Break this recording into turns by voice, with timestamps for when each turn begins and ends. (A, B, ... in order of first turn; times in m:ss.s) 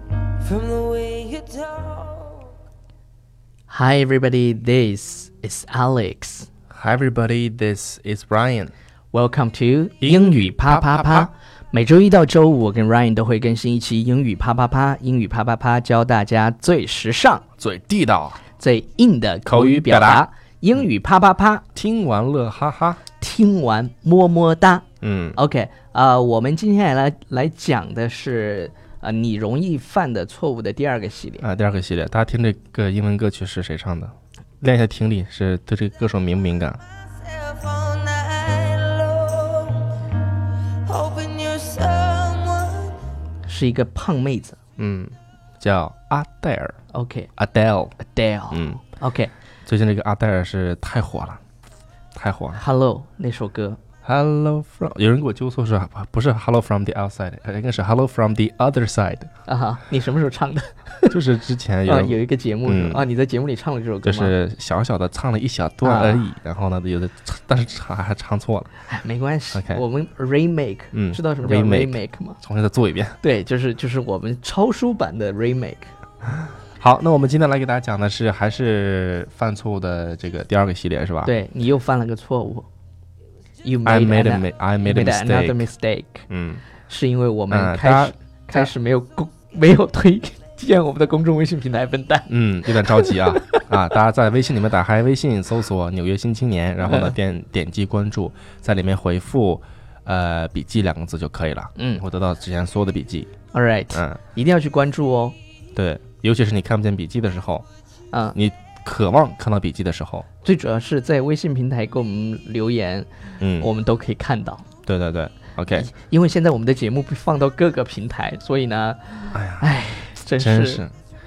0:00.4-0:02.5 A
0:03.7-0:06.5 B
0:06.7-0:08.7 C
0:09.1-0:17.4 B
0:10.0-0:11.3 C
0:17.6-0:18.4 C
0:18.6-0:21.6 B
0:19.5-0:20.2 C
0:21.8-0:23.0 C
0:23.2-0:31.4 B
0:25.0-0:25.4 C
0:31.4-0:36.8 C
0:37.2-0:40.1 A
0:40.8-0:43.0 A
0:43.5-0:44.6 B
0:44.8-0:46.8 C
0:46.9-0:47.3 B
0:47.4-0:48.0 C
0:48.0-0:49.3 B
0:48.5-0:48.8 C
0:49.7-0:51.4 C
0:52.1-0:52.6 C
0:52.6-0:53.8 B
0:54.0-0:59.3 C
0:59.5-1:01.2 B
1:01.1-1:03.0 C
1:01.9-1:04.3 B
1:04.0-1:08.7 C
1:05.8-1:06.2 B
1:08.9-1:12.4 B
1:09.5-1:09.8 C
1:10.9-1:13.2 C
1:13.2-1:15.9 B
1:16.8-1:21.3 C
1:21.2-1:22.7 B
1:23.6-1:26.3 B
1:23.8-1:25.7 C
1:26.3-1:26.7 C
1:26.9-1:33.6 B
1:27.5-1:28.7 C
1:32.3-1:43.3 C
1:36.9-1:37.1 B
1:41.8-1:42.0 B
1:43.5-1:45.4 B
1:43.9-1:44.2 C
1:45.8-1:47.7 C
1:48.4-1:50.3 C
1:50.4-1:54.7 B
1:53.4-1:53.7 C
1:54.9-1:55.9 C
1:55.8-2:00.8 B
1:59.3-1:59.8 C
2:00.4-2:01.0 C